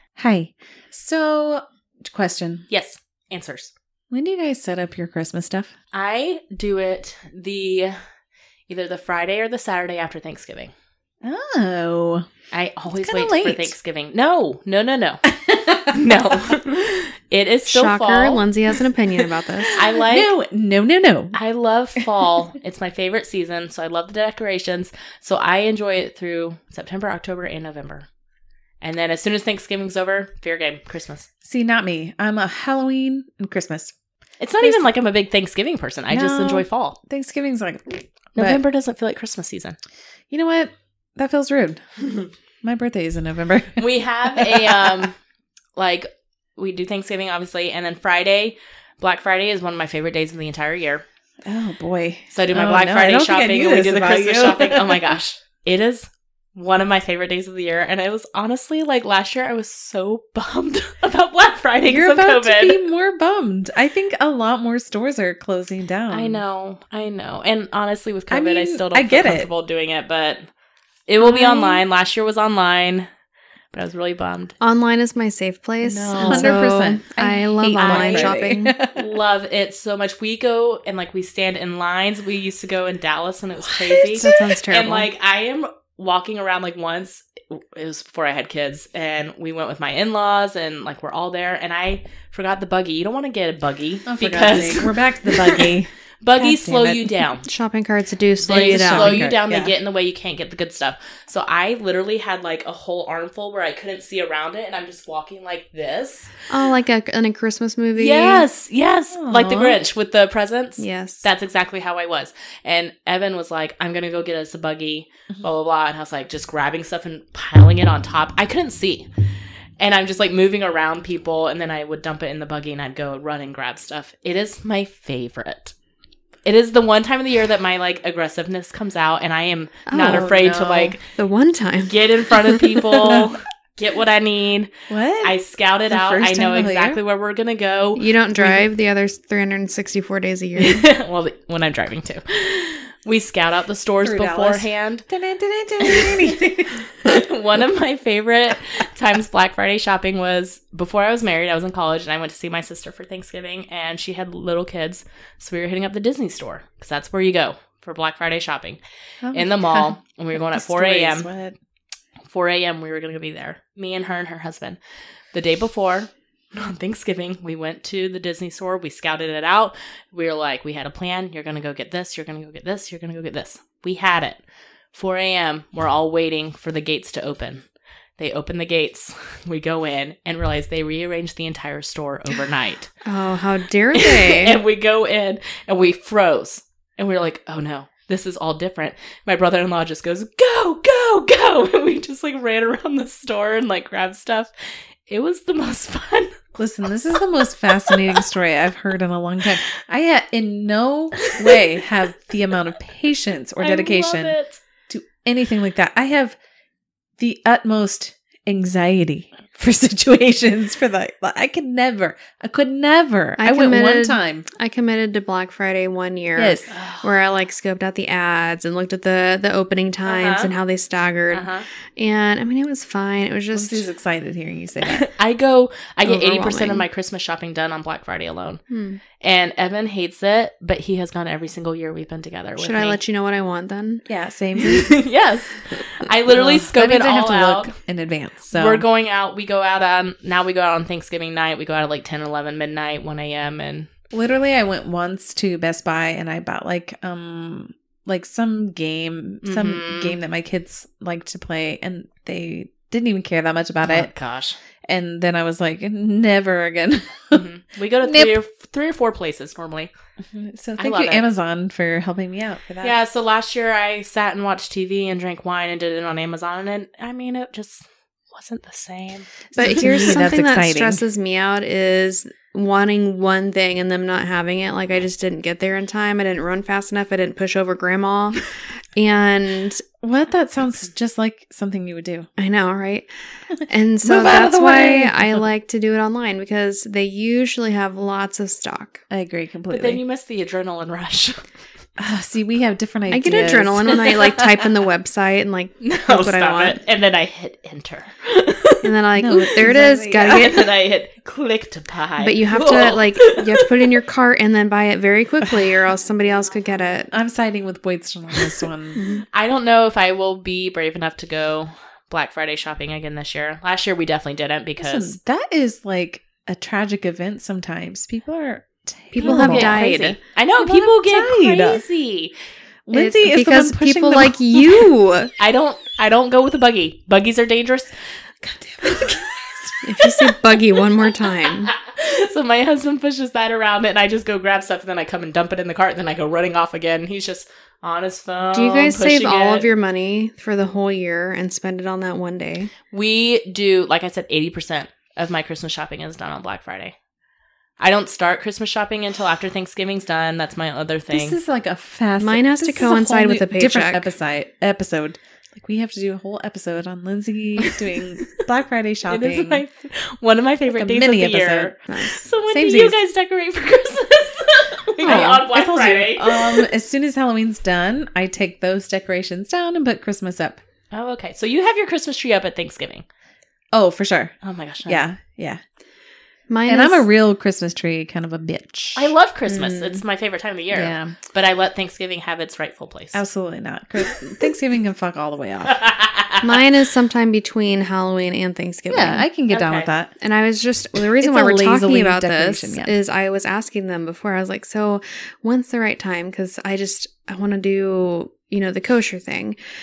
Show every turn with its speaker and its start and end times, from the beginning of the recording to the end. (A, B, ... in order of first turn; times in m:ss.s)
0:00.2-0:02.7 A
0:02.7-0:03.7 B
0:04.1-0:05.7 A
0:05.9-0:08.0 B
0:08.7-0:10.7 B
0:11.2-0:12.3 A
0:12.5-0:15.3 B
0:13.0-0:13.7 A
0:15.3-0:16.6 A
0:15.8-0:18.5 B
0:17.7-0:19.8 C
0:19.7-0:20.3 B
0:19.8-0:21.4 A
0:21.4-0:28.1 B
0:28.8-0:31.3 B
0:31.4-0:33.9 A
0:34.4-0:37.0 B
0:34.6-0:34.9 A
0:36.1-0:38.6 A
0:38.3-0:39.8 B
0:40.3-0:41.8 A
0:42.6-0:45.0 A
0:43.8-0:45.2 B
0:45.8-0:51.0 B
0:51.4-0:55.1 A
0:52.3-1:02.8 B
1:01.9-1:06.4 A
1:06.1-1:10.5 B
1:08.3-1:09.5 A
1:11.1-1:13.1 B
1:11.2-1:11.6 A
1:13.7-1:14.6 B
1:14.6-1:18.8 C
1:15.8-1:19.1 A
1:16.1-1:16.6 B
1:17.8-1:18.3 B
1:18.9-1:37.5 B
1:23.6-1:24.4 A
1:24.2-1:25.1 C
1:34.1-1:37.2 A
1:37.4-1:39.3 C
1:38.4-1:46.3 B
1:38.5-1:39.7 A
1:46.5-1:48.5 C
1:48.0-1:59.1 B
1:49.1-1:49.8 A
1:50.8-1:51.3 C
1:59.8-2:05.8 B
2:06.5-2:11.0 B
2:09.9-2:10.4 C
2:10.0-2:11.0 A
2:11.0-2:13.2 C
2:11.9-2:14.7 B
2:14.9-2:17.0 A
2:15.2-2:18.1 B
2:18.0-2:20.9 C
2:20.6-2:25.1 B
2:24.0-2:26.9 A
2:25.8-2:38.8 B
2:39.2-2:41.6 A
2:39.3-2:41.3 B
2:42.3-2:44.8 B
2:45.3-2:54.4 B
2:54.9-2:57.6 B
2:58.2-3:02.9 B
3:03.0-3:04.6 C
3:03.9-3:14.5 B
3:15.1-3:16.4 B
3:16.6-3:24.4 A
3:17.6-3:18.2 B
3:21.2-3:21.6 B
3:23.6-3:24.6 B
3:24.9-3:26.4 A
3:27.2-3:34.5 A
3:33.4-3:43.8 C
3:36.4-3:36.7 A
3:36.7-3:37.1 B
3:40.1-3:40.5 B
3:41.3-3:41.7 B
3:43.5-3:45.1 A
3:44.8-3:48.6 B
3:46.0-3:46.9 C
3:48.7-3:49.0 C
3:49.2-3:53.0 B
3:52.6-3:54.0 C
3:54.1-3:55.0 A
3:54.6-3:57.8 B
3:56.3-3:58.8 A
3:58.5-4:03.9 B
4:04.1-4:14.1 A
4:09.4-4:10.2 B
4:13.8-4:14.6 B
4:14.9-4:17.5 A
4:17.3-4:19.9 B
4:18.0-4:18.3 A
4:20.3-4:23.0 A
4:20.8-4:21.2 B
4:22.8-4:30.2 B
4:29.6-4:39.8 C
4:29.6-4:31.0 A
4:40.0-4:42.3 A
4:42.4-4:49.0 C
4:44.0-4:45.4 A
4:49.1-4:50.0 A
4:49.7-4:51.5 B
4:52.0-4:54.4 A
4:53.1-4:56.8 C
4:55.8-4:58.9 B
4:58.8-5:00.7 C
4:59.2-5:00.5 A
5:00.2-5:03.8 B
5:02.2-5:07.1 C
5:05.4-5:05.7 A
5:07.1-5:09.0 A
5:09.0-5:09.2 C
5:09.3-5:15.2 B
5:14.8-5:19.8 A
5:19.1-5:20.2 C
5:19.2-5:22.3 B
5:20.6-5:21.8 A
5:22.9-5:24.9 A
5:22.9-5:25.3 C
5:25.4-5:27.9 B
5:28.4-5:29.8 A
5:28.8-5:29.5 B
5:29.8-5:31.7 C
5:31.7-5:39.7 B
5:38.5-5:42.7 C
5:42.9-5:47.0 B
5:47.8-5:51.4 B
5:51.1-5:59.6 A
5:52.2-5:54.1 C
5:57.6-5:58.4 B
5:59.1-6:06.7 B
6:00.7-6:01.7 A
6:01.9-6:02.2 C
6:02.5-6:03.0 A
6:05.0-6:10.6 A
6:10.9-6:13.1 B
6:13.7-6:14.4 A
6:14.4-6:15.0 B
6:14.9-6:15.6 A
6:16.5-6:17.1 C
6:16.7-6:19.1 A
6:19.0-6:23.2 B
6:19.5-6:20.0 C
6:20.7-6:21.2 A
6:23.1-6:25.8 A
6:25.7-6:26.5 B
6:26.4-6:29.3 C
6:28.9-6:30.1 A
6:29.5-6:29.9 B
6:30.2-6:39.6 C
6:31.0-6:32.9 A